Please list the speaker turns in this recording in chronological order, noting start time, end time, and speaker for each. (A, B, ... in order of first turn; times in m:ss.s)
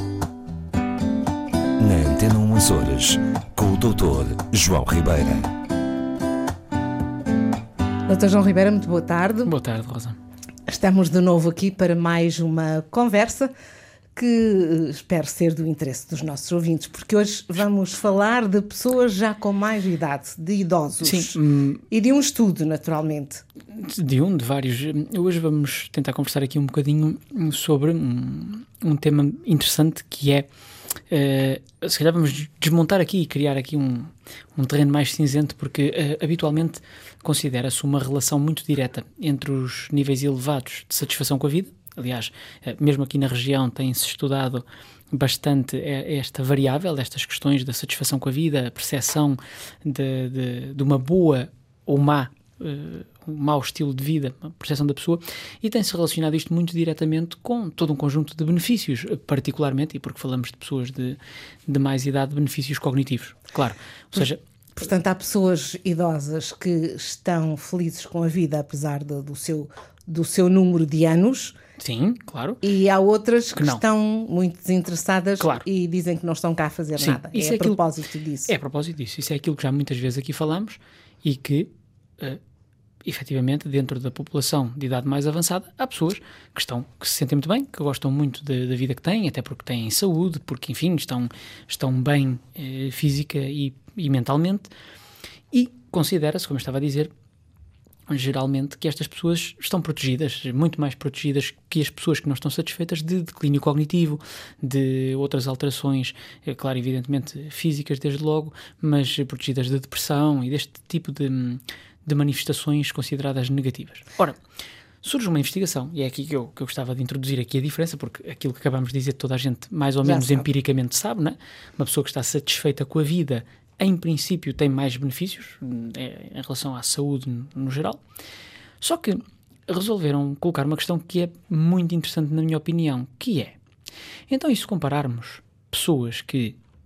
0:01.8-0:05.5 A
0:08.1-0:09.5 B
0:09.4-0:10.2 C
0:10.7-0:13.5 B
0:14.2-0:21.4 B
0:21.0-0:21.8 C
0:21.9-0:23.4 B
0:23.7-0:30.5 C
0:31.1-1:04.4 C
1:04.2-1:11.5 B
1:11.8-1:12.6 C
1:12.6-1:18.5 B
1:13.5-1:13.8 C
1:15.4-1:15.6 C
1:17.0-1:17.8 C
1:18.5-1:22.4 C
1:23.0-1:34.7 C
1:35.5-1:37.1 C
1:38.1-1:54.4 C
1:55.0-2:08.0 C
2:00.0-2:00.5 B
2:08.8-2:13.6 C
2:14.3-2:16.6 C